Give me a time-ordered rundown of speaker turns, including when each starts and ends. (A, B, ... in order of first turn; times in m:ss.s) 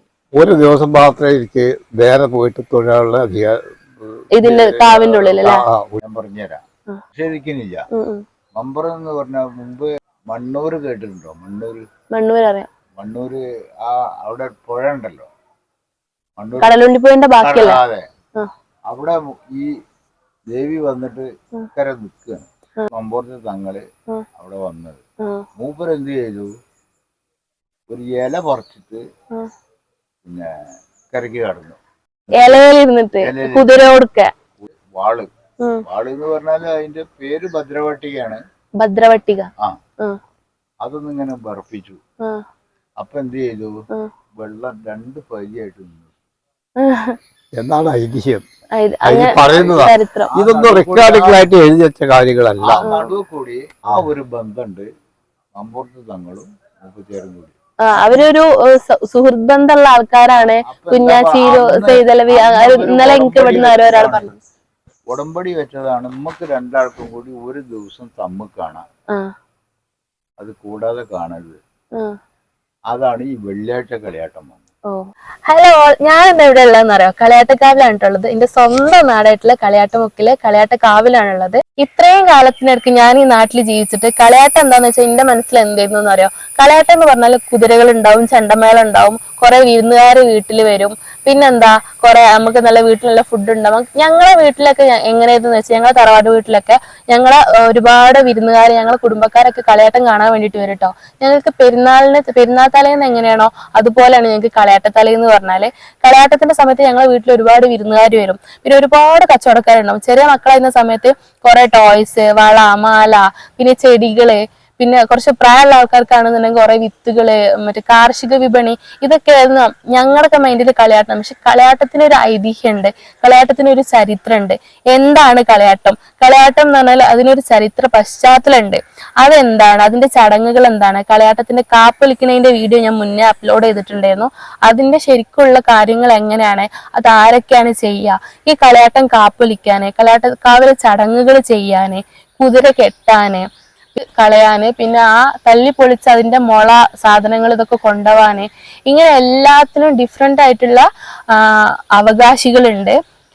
0:00.3-0:06.0 A
0:04.3-0:05.6 B
0:06.0-0:06.6 C
0:07.1-0:07.8 C
0:07.9-0:08.2 B
0:08.6-0:11.8 C
0:12.1-0:12.7 B
0:13.0-0:15.3 C
0:16.4-0:16.7 C
0:16.6-0:17.8 B
0:17.4-0:18.0 C
0:18.9-0:19.7 C
0:20.5-0:23.8 C
0:24.4-0:25.0 C
0:25.6-0:26.5 C
0:27.9-0:29.0 C
0:31.1-0:31.8 C
0:32.3-0:32.6 C
0:32.4-0:34.3 B
0:33.2-0:33.8 C
0:34.6-0:35.3 C
0:35.8-0:38.4 C
0:38.8-0:39.5 B
0:40.8-0:42.0 C
0:43.0-0:43.7 C
0:44.4-0:46.1 C
0:46.8-0:47.2 B
0:47.6-0:48.4 A
0:48.8-0:50.3 B
0:49.0-0:52.8 A
0:49.4-0:51.5 C
0:52.6-0:54.9 C
0:52.8-0:53.1 B
0:55.6-0:57.5 C
0:57.8-1:04.3 B
1:00.6-1:04.3 C
1:05.1-1:08.8 C
1:10.4-1:11.6 C
1:12.9-1:14.6 C
1:14.9-2:32.9 B